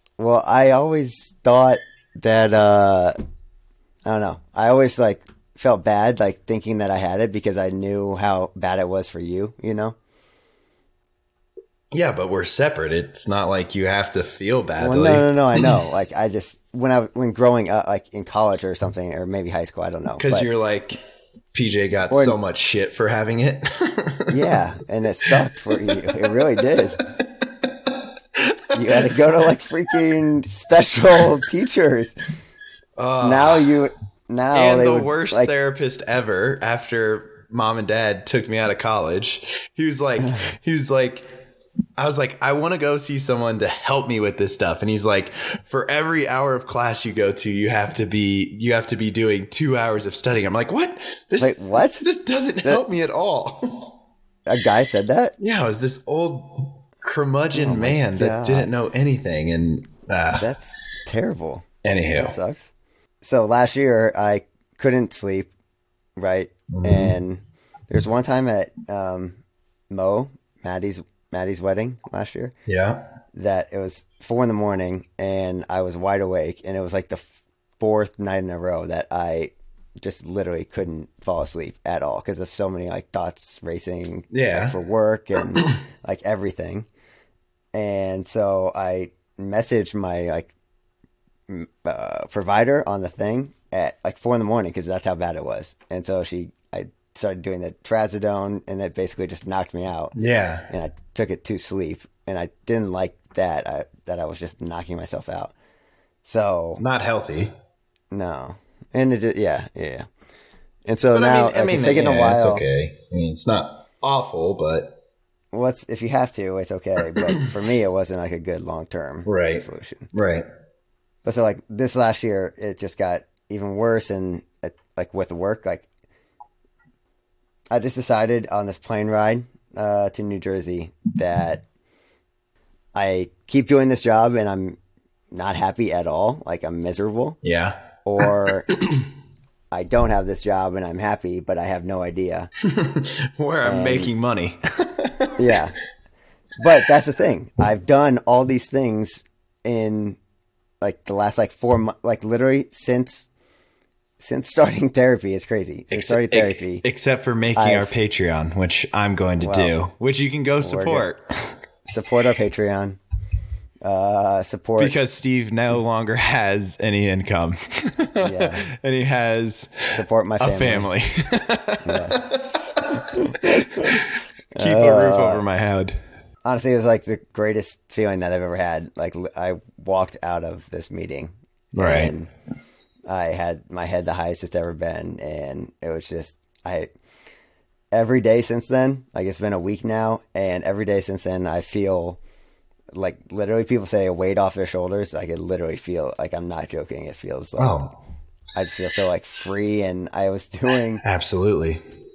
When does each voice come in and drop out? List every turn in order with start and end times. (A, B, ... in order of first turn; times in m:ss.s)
0:00.2-0:03.2 A
0:04.0-0:10.0 A
0:11.9-0:15.8 B
0:14.8-0:20.5 A
0:20.2-0:21.0 B
0:21.5-0:24.6 B
0:22.1-0:22.4 A
0:24.3-0:27.0 A
0:25.9-0:26.2 B
0:27.4-0:27.7 B
0:28.3-0:29.2 B
0:28.7-0:32.2 A
0:33.0-0:33.6 B
0:33.2-0:35.5 A
0:34.5-0:41.3 B
0:42.0-0:53.9 B
0:51.4-0:52.0 A
0:54.4-0:55.3 A
0:55.4-1:00.5 B
0:57.5-0:58.7 A
1:00.4-1:02.7 A
1:01.8-1:02.4 B
1:03.2-1:05.5 A
1:06.2-1:09.4 A
1:06.7-1:07.1 B
1:09.9-1:12.5 A
1:12.7-1:13.0 B
1:13.3-1:26.9 A
1:24.3-1:24.8 B
1:27.7-1:30.5 A
1:31.5-1:40.1 A
1:40.1-1:40.6 B
1:40.7-1:45.5 A
1:46.2-1:46.8 A
1:46.8-1:47.5 B
1:48.1-1:50.1 A
1:50.8-1:52.6 A
1:51.1-1:55.0 B
1:55.5-2:00.1 A
1:59.2-2:00.5 B
2:01.2-2:05.8 A
2:07.7-2:11.6 A
2:12.9-2:14.8 A
2:15.3-2:17.4 A
2:17.4-2:19.1 B
2:18.0-2:18.7 A
2:19.7-2:22.5 A
2:22.6-2:25.6 B
2:23.6-2:24.1 A
2:25.4-2:25.8 A
2:26.6-2:30.2 A
2:30.8-2:33.3 A
2:34.2-2:36.8 A
2:35.9-2:41.5 B
2:37.6-2:37.9 A
2:39.4-2:39.7 A
2:40.6-2:41.0 A
2:41.9-2:43.0 A
2:43.8-2:44.9 A
2:44.8-2:56.0 B
2:48.2-2:48.6 A
2:49.9-2:50.9 A
2:51.8-2:54.0 A
2:54.5-2:55.4 A
2:56.4-3:02.3 A
3:01.8-3:02.1 B
3:03.1-3:06.9 A
3:07.9-3:12.2 A
3:12.9-3:17.8 A
3:17.6-3:17.9 B
3:18.5-3:21.0 A
3:21.0-3:21.8 B